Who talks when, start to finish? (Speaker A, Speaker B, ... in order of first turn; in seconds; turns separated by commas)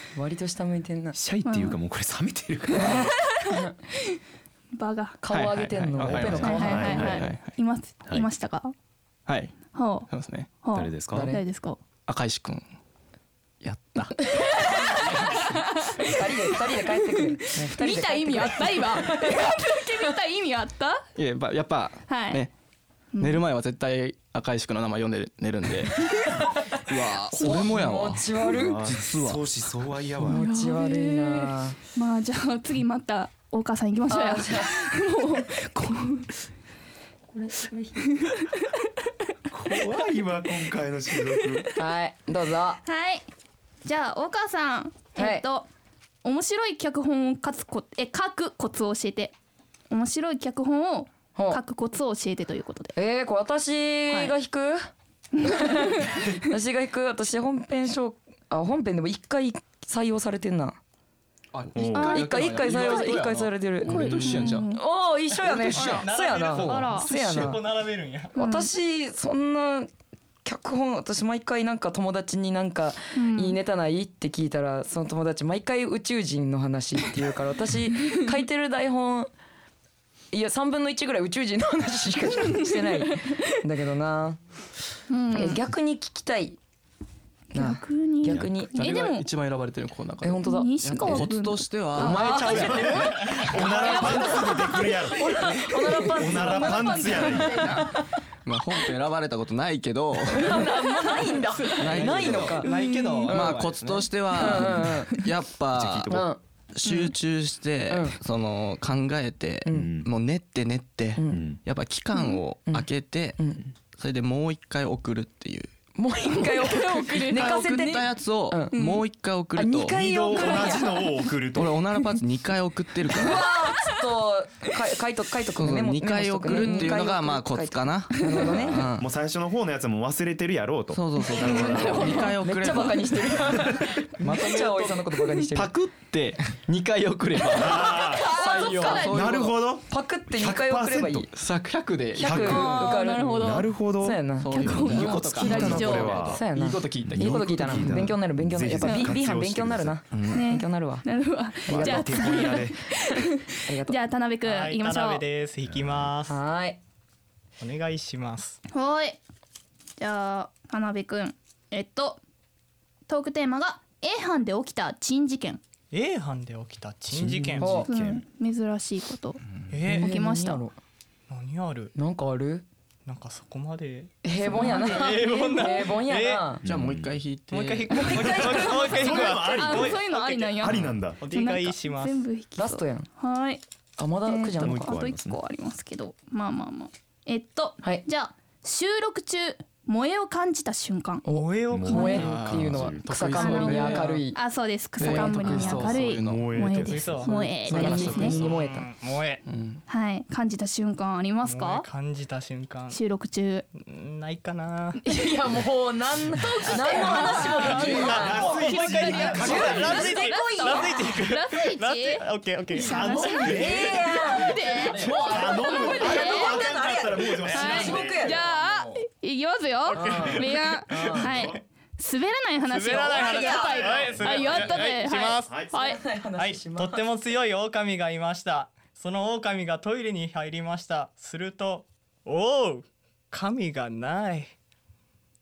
Speaker A: 0.1-1.1, Speaker B: 1.1-3.1, Speaker C: 1.4-1.8, Speaker A: 2.7-3.7, Speaker C: 2.7-4.2, Speaker C: 4.8-5.2, Speaker A: 5.2-7.2, Speaker D: 5.3-7.5, Speaker B: 6.0-7.3, Speaker C: 6.4-8.7, Speaker D: 9.2-9.6, Speaker C: 9.7-11.8, Speaker D: 10.1-10.5, Speaker B: 10.7-11.3, Speaker A: 11.1-11.4, Speaker D: 12.1-12.6, Speaker D: 13.6-14.3, Speaker A: 14.3-15.3, Speaker C: 14.3-21.0, Speaker A: 16.0-20.1, Speaker D: 21.1-22.5, Speaker C: 22.1-22.4, Speaker C: 23.1-23.4, Speaker D: 23.2-28.2, Speaker E: 27.3-29.4, Speaker A: 27.3-28.9, Speaker B: 28.4-30.4, Speaker A: 30.2-31.8, Speaker C: 30.2-36.4, Speaker A: 34.1-34.8, Speaker A: 37.3-38.0, Speaker C: 38.0-38.8, Speaker B: 39.5-41.7, Speaker C: 41.4-41.8, Speaker A: 41.8-42.8, Speaker C: 42.8-43.2, Speaker C: 43.8-45.7, Speaker A: 45.1-45.4, Speaker C: 46.2-49.3, Speaker C: 49.9-52.9, Speaker A: 51.4-51.6, Speaker A: 52.9-60.8, Speaker C: 55.4-56.2, Speaker D: 61.5-64.7, Speaker B: 61.7-62.4, Speaker C: 61.9-63.1, Speaker A: 61.9-67.6, Speaker C: 63.8-64.8, Speaker D: 65.5-67.6, Speaker F: 65.5-68.3, Speaker C: 65.8-66.0, Speaker C: 66.5-67.1, Speaker A: 68.3-69.9, Speaker C: 68.3-68.7, Speaker A: 70.4-79.3, Speaker C: 73.1-73.6, Speaker A: 80.3-84.4, Speaker C: 82.4-83.6, Speaker C: 85.1-85.6, Speaker A: 85.3-86.6, Speaker C: 87.5-89.3, Speaker A: 87.5-88.7, Speaker B: 88.2-88.5, Speaker D: 88.7-90.4, Speaker A: 90.2-91.2, Speaker C: 90.4-93.0, Speaker E: 90.8-93.1, Speaker A: 92.0-98.0, Speaker D: 92.0-93.2, Speaker B: 92.6-97.9, Speaker C: 93.5-95.0, Speaker D: 93.8-94.1, Speaker C: 95.8-97.8, Speaker D: 97.6-97.8, Speaker E: 98.5-100.6, Speaker A: 100.3-102.7, Speaker C: 100.5-101.9, Speaker E: 101.8-102.6, Speaker D: 101.9-104.6, Speaker C: 102.6-103.3, Speaker A: 103.3-103.7, Speaker E: 103.3-106.2, Speaker A: 104.3-105.2, Speaker B: 105.7-106.3, Speaker A: 106.1-106.4, Speaker E: 106.7-115.7, Speaker C: 106.8-107.1, Speaker A: 107.9-108.2, Speaker A: 109.6-109.9, Speaker B: 109.7-110.1, Speaker A: 111.2-111.4, Speaker B: 111.3-111.6, Speaker A: 113.4-113.6, Speaker A: 115.9-119.0, Speaker C: 116.2-118.0, Speaker E: 117.3-120.0, Speaker C: 118.7-119.0, Speaker A: 119.5-121.0, Speaker B: 119.9-121.8, Speaker E: 121.5-123.5, Speaker A: 123.1-128.8, Speaker C: 123.5-124.0, Speaker E: 125.5-129.1, Speaker C: 126.5-126.9, Speaker C: 128.2-128.5, Speaker B: 128.8-132.3, Speaker E: 130.9-133.7, Speaker C: 131.3-132.3, Speaker A: 131.4-135.7, Speaker B: 133.5-133.9, Speaker D: 134.2-139.5, Speaker C: 137.5-139.4, Speaker B: 137.5-141.3, Speaker A: 138.6-139.1, Speaker A: 139.9-141.3, Speaker D: 141.3-142.4, Speaker A: 142.1-144.7, Speaker B: 142.2-146.5, Speaker C: 142.2-143.7, Speaker E: 144.4-146.4, Speaker C: 144.5-146.2, Speaker D: 144.7-147.8, Speaker A: 145.4-151.1, Speaker B: 147.1-150.0, Speaker E: 147.7-148.1, Speaker C: 148.8-149.1, Speaker E: 150.1-150.4, Speaker C: 150.3-155.2, Speaker A: 151.7-152.6, Speaker B: 151.7-152.8, Speaker A: 153.6-154.0, Speaker F: 154.4-156.4, Speaker B: 155.7-156.1, Speaker A: 156.2-156.8, Speaker F: 157.6-158.6, Speaker C: 158.7-159.2, Speaker C: 160.0-162.2, Speaker C: 163.1-165.6, Speaker F: 165.9-167.8, Speaker B: 167.1-168.2, Speaker A: 167.6-167.9, Speaker C: 167.8-169.4, Speaker F: 169.7-170.1, Speaker A: 169.8-170.7, Speaker C: 169.9-170.6, Speaker F: 171.3-171.9, Speaker A: 171.9-172.6, Speaker F: 173.1-176.5, Speaker A: 174.2-176.6, Speaker C: 174.5-175.1, Speaker B: 176.6-177.2, Speaker E: 176.6-178.3, Speaker F: 177.5-182.2, Speaker C: 177.9-183.6, Speaker B: 178.2-180.0, Speaker B: 180.6-181.2, Speaker A: 182.6-183.1, Speaker A: 184.0-184.9, Speaker C: 184.2-191.2, Speaker B: 184.6-185.4, Speaker A: 191.2-194.4, Speaker F: 191.3-192.5, Speaker B: 191.7-193.1, Speaker C: 191.9-192.2, Speaker D: 192.2-194.2, Speaker C: 193.3-198.4, Speaker A: 195.0-195.9, Speaker D: 195.0-196.5, Speaker B: 195.8-197.3, Speaker F: 196.8-197.4, Speaker A: 197.3-198.9, Speaker D: 197.6-198.6, Speaker F: 198.0-199.4, Speaker D: 199.5-199.8, Speaker C: 199.9-201.9, Speaker F: 201.4-203.0, Speaker C: 202.9-203.6, Speaker F: 203.8-205.0, Speaker A: 205.0-211.2, Speaker C: 206.6-208.0, Speaker F: 206.6-214.6, Speaker B: 207.9-210.2, Speaker C: 208.7-216.6, Speaker B: 212.8-214.1, Speaker A: 213.0-218.5, Speaker D: 214.9-215.3, Speaker B: 215.1-218.4, Speaker F: 217.4-218.0, Speaker C: 217.5-226.0, Speaker D: 218.5-218.9, Speaker F: 219.9-220.5, Speaker A: 219.9-221.4, Speaker B: 220.0-221.6, Speaker F: 222.7-225.6, Speaker A: 223.0-224.7, Speaker A: 225.7-227.0, Speaker F: 226.3-234.5